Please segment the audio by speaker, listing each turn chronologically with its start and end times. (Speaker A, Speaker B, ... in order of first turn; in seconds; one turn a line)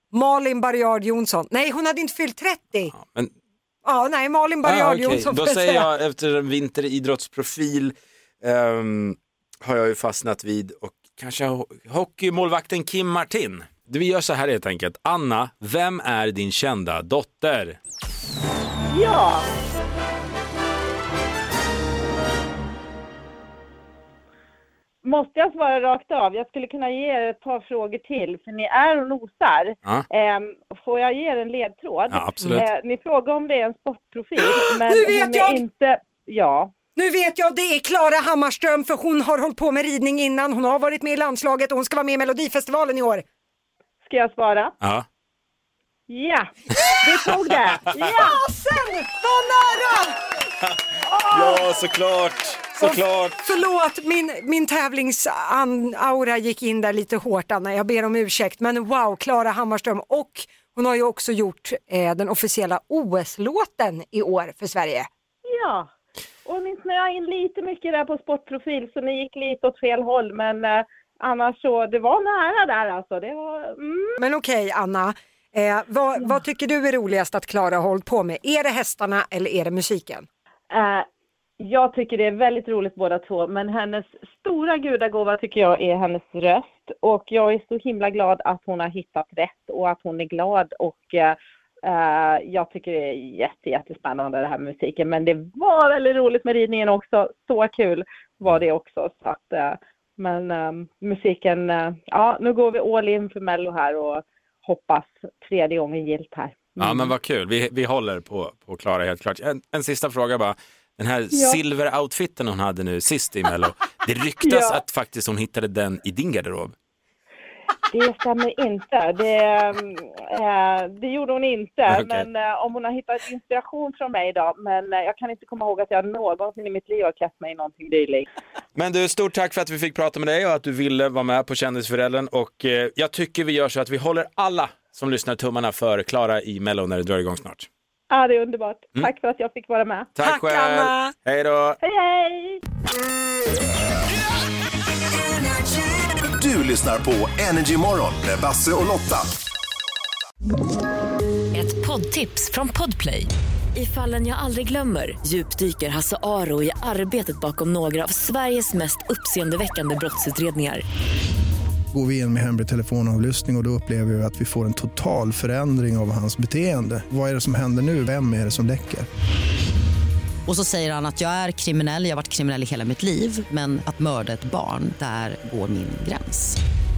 Speaker A: 0.1-2.9
Speaker B: 2.9-3.3
Speaker A: 3.8-5.9
Speaker B: 4.6-17.8
Speaker C: 18.9-19.4
Speaker C: 25.0-36.7
Speaker B: 32.1-32.6
Speaker A: 34.4-35.6
Speaker A: 37.0-43.2
Speaker C: 44.0-44.7
Speaker C: 46.1-48.4
Speaker A: 47.9-50.2
Speaker B: 51.2-53.4
Speaker A: 52.8-65.1
Speaker C: 65.4-65.9
Speaker C: 66.4-74.2
Speaker A: 74.2-80.2
Speaker C: 80.7-81.0
Speaker C: 81.6-107.1
Speaker B: 106.8-116.7
Speaker C: 111.3-111.6
Speaker C: 114.4-114.8
Speaker C: 117.9-128.3
Speaker B: 121.9-122.3
Speaker B: 128.8-137.7
Speaker C: 138.1-140.1
Speaker B: 140.2-141.8
Speaker A: 140.2-141.1
Speaker C: 141.8-142.6
Speaker D: 146.3-149.3
Speaker E: 151.5-160.8
Speaker F: 161.9-169.1
Speaker G: 170.5-176.6